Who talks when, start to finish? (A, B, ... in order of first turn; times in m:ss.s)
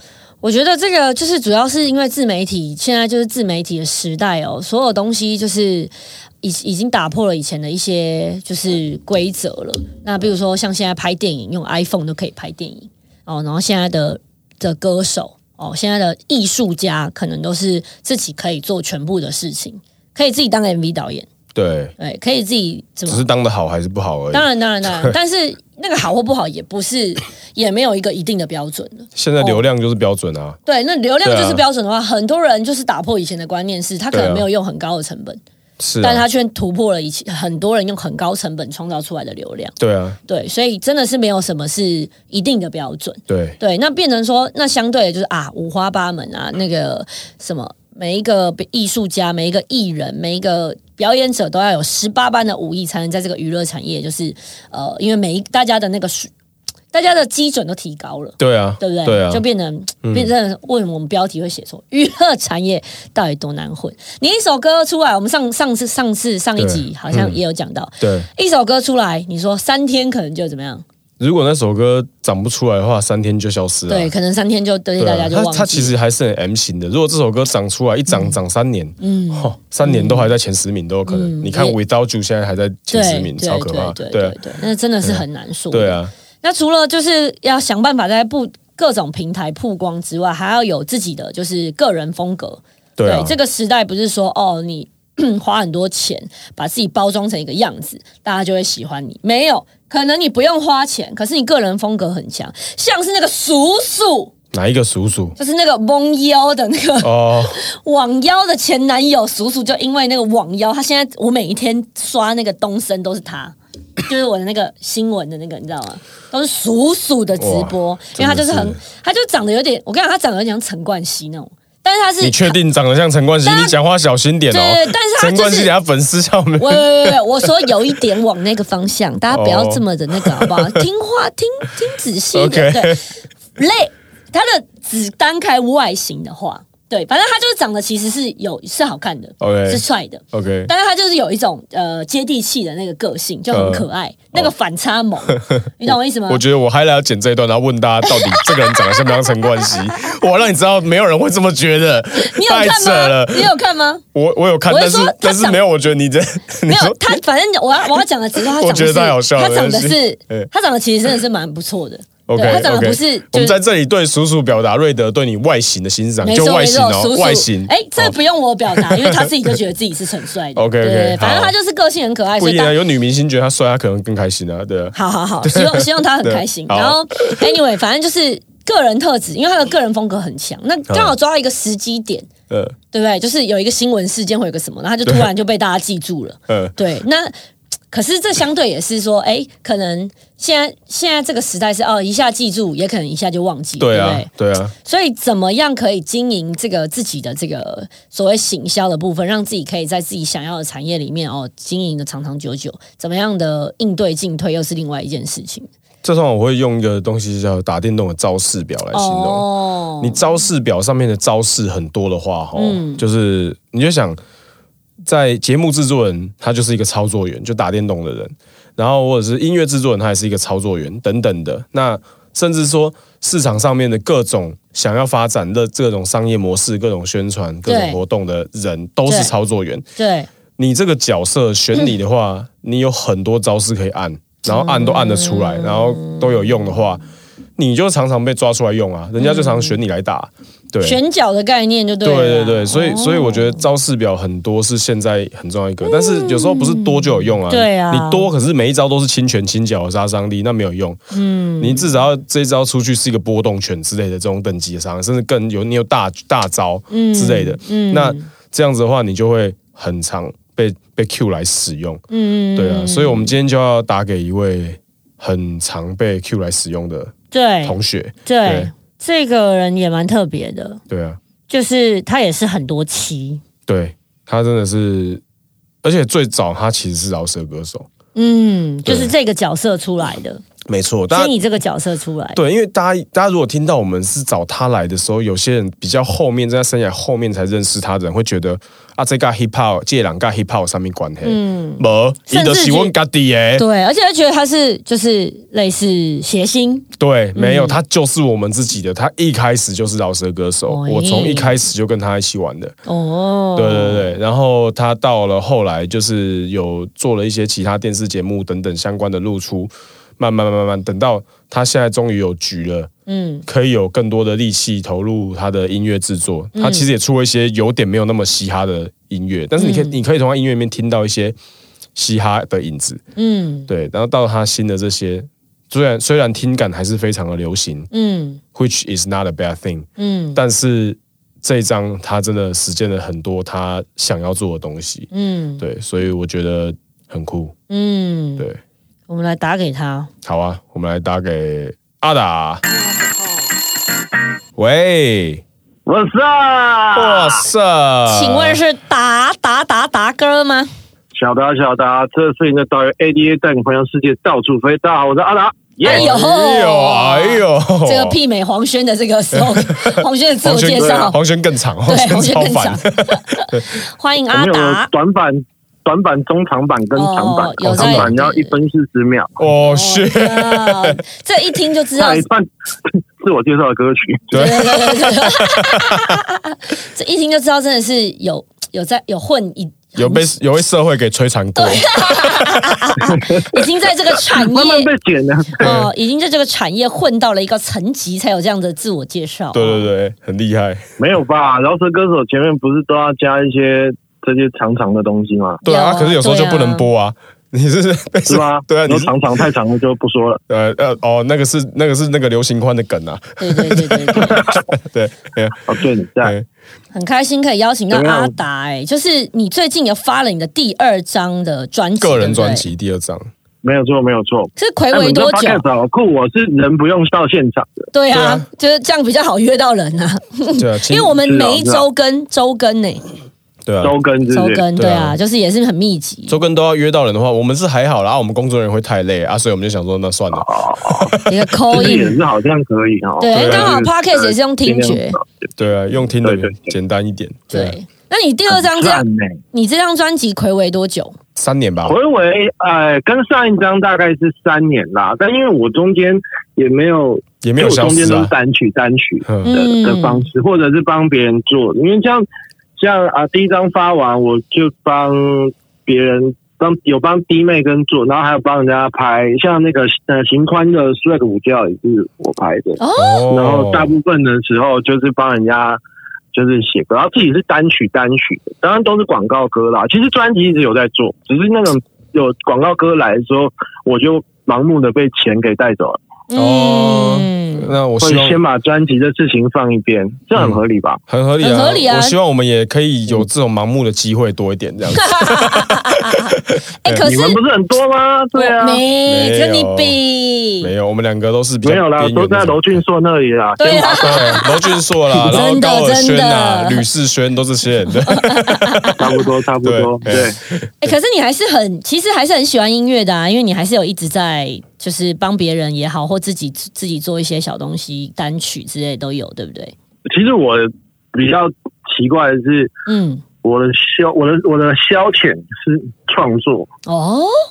0:00.4-0:21.3 A
0:21.5-0:21.9 B
0:22.0-0:23.2 A
0:23.1-0:25.1 B
0:24.3-0:29.6 A
0:29.2-0:30.6 B
0:30.6-0:35.4 A
0:31.2-0:31.6 B
0:34.1-0:34.4 B
0:35.8-0:36.2 B
0:36.0-0:39.7 A
0:39.8-0:40.2 B
0:40.3-0:56.3 A
0:43.3-0:43.6 B
0:56.9-1:10.8 A
0:58.4-0:59.4 B
1:00.0-1:00.3 B
1:06.6-1:07.4 B
1:08.0-1:08.3 B
1:11.2-1:14.1 B
1:13.9-1:15.9 A
1:15.0-1:24.4 B
1:19.0-1:20.3 A
1:21.1-1:21.8 A
1:22.9-1:44.3 A
1:25.0-1:26.1 B
1:33.0-1:33.4 B
1:44.5-1:45.3 B
1:45.4-2:02.6 A
1:47.0-1:47.6 B
1:57.4-1:58.8 B
2:02.2-2:07.4 B
2:03.4-2:03.7 A
2:04.5-2:05.7 A
2:06.6-2:13.0 A
2:09.3-2:10.8 B
2:12.3-2:13.0 B
2:13.6-2:26.4 A
2:19.4-2:20.7 B
2:23.5-2:24.5 B
2:25.3-2:33.5 B
2:28.0-2:29.7 A
2:32.1-2:34.0 A
2:34.1-2:37.2 B
2:34.7-2:35.6 A
2:36.7-2:43.6 A
2:38.3-2:40.5 B
2:42.3-2:48.1 B
2:46.2-2:52.8 A
2:48.7-2:49.3 B
2:50.6-2:51.5 B
2:52.4-2:57.6 B
2:54.9-3:02.3 A
3:00.9-3:01.1 B
3:02.5-3:02.8 B
3:02.9-3:07.3 A
3:06.5-3:06.8 B
3:07.9-3:14.3 A
3:13.8-3:14.7 B
3:14.8-3:25.7 A
3:26.0-3:29.5 B
3:28.9-3:30.2 A
3:30.0-3:34.2 B
3:32.5-3:33.0 A
3:35.0-3:49.8 B
3:47.6-3:48.0 A
3:49.1-3:49.3 A
3:50.0-3:50.3 A
3:50.6-3:57.0 B
3:54.4-3:56.8 A
3:57.6-4:01.0 B
3:59.2-3:59.8 A
4:00.8-4:03.6 A
4:02.0-4:11.0 B
4:05.8-4:08.3 A
4:11.1-4:11.9 A
4:11.6-4:22.0 B
4:16.9-4:18.3 A
4:22.1-4:23.3 A
4:22.6-4:28.7 B
4:27.3-4:30.8 A
4:30.9-4:31.2 B
4:31.5-4:33.4 A
4:33.7-4:35.2 B
4:35.8-4:37.9 B
4:38.1-4:40.4 A
4:38.8-4:39.1 B
4:40.7-4:41.3 B
4:41.1-4:42.4 A
4:42.4-4:53.6 B
4:51.2-4:52.9 A
4:53.5-4:57.8 A
4:57.0-5:02.8 B
5:00.7-5:01.6 A
5:02.8-5:04.1 A
5:03.6-5:12.9 B
5:13.1-5:13.4 A
5:13.5-5:21.4 B
5:16.5-5:16.9 A
5:19.6-5:19.9 A
5:22.0-5:23.0 B
5:23.2-5:23.7 A
5:23.7-5:27.9 B
5:27.9-5:28.4 A
5:28.5-5:37.5 B
5:30.0-5:30.4 A
5:35.1-5:35.6 A
5:37.7-5:38.5 A
5:39.1-5:40.1 A
5:40.2-5:42.6 B
5:44.6-5:45.4 B
5:45.8-5:47.4 C
5:46.9-5:48.6 B
5:48.0-5:50.7 A
5:51.1-5:56.1 C
5:55.8-6:01.2 A
5:55.8-5:58.2 B
5:59.3-6:03.7 B
6:00.8-6:01.1 C
6:01.8-6:04.9 A
6:04.3-6:09.4 C
6:06.9-6:08.5 A
6:07.6-6:08.1 B
6:09.4-6:11.0 B
6:09.6-6:12.2 A
6:12.0-6:14.4 C
6:14.3-6:16.2 B
6:14.3-6:20.3 A
6:20.0-6:22.8 B
6:21.6-6:24.9 A
6:23.1-6:23.6 C
6:24.3-6:25.8 C
6:25.6-6:29.9 A
6:25.6-6:25.9 B
6:29.5-6:30.8 B
6:31.0-6:35.6 C
6:35.6-6:39.1 B
6:35.6-6:36.9 A
6:38.3-6:40.4 C
6:40.5-6:46.4 B
6:43.4-6:44.4 A
6:44.2-6:44.6 C
6:45.6-6:46.3 C
6:46.9-6:52.7 A
6:47.9-6:48.3 C
6:52.0-6:53.3 B
6:53.6-6:57.9 C
6:54.6-6:55.6 A
6:57.9-7:03.0 A
6:58.1-6:58.4 B
7:00.6-7:01.2 B
7:01.2-7:01.8 C
7:03.6-7:03.9 B
7:03.8-7:04.6 C
7:04.3-7:06.4 A
7:04.8-7:05.2 B
7:06.3-7:11.3 B
7:10.3-7:15.5 C
7:11.2-7:12.2 A
7:13.2-7:15.2 A
7:13.3-7:13.8 B
7:15.6-7:17.8 B
7:16.2-7:16.7 C
7:17.5-7:21.2 A
7:18.5-7:19.4 C
7:21.4-7:22.0 B
7:21.8-7:32.2 C
7:27.4-7:28.3 B
7:29.4-7:30.3 A
7:32.8-7:45.8 C
7:42.8-7:43.3 A
7:43.0-7:43.9 B
7:46.3-7:56.0 C
7:56.3-7:57.7 A
7:56.3-7:58.4 B
7:58.0-8:01.0 C
8:00.4-8:07.0 B
8:01.4-8:02.2 A
8:04.9-8:07.4 A
8:07.0-8:08.8 C
8:08.3-8:10.7 A
8:09.0-8:10.0 B
8:10.6-8:12.8 B
8:11.6-8:14.4 C
8:13.6-8:16.8 A
8:13.9-8:19.0 B
8:18.0-8:19.1 A
8:19.0-8:20.4 C
8:19.6-8:20.9 B
8:20.8-8:29.7 A
8:30.1-8:32.7 C
8:32.9-8:33.2 A
8:33.4-8:36.7 C
8:36.8-8:37.4 A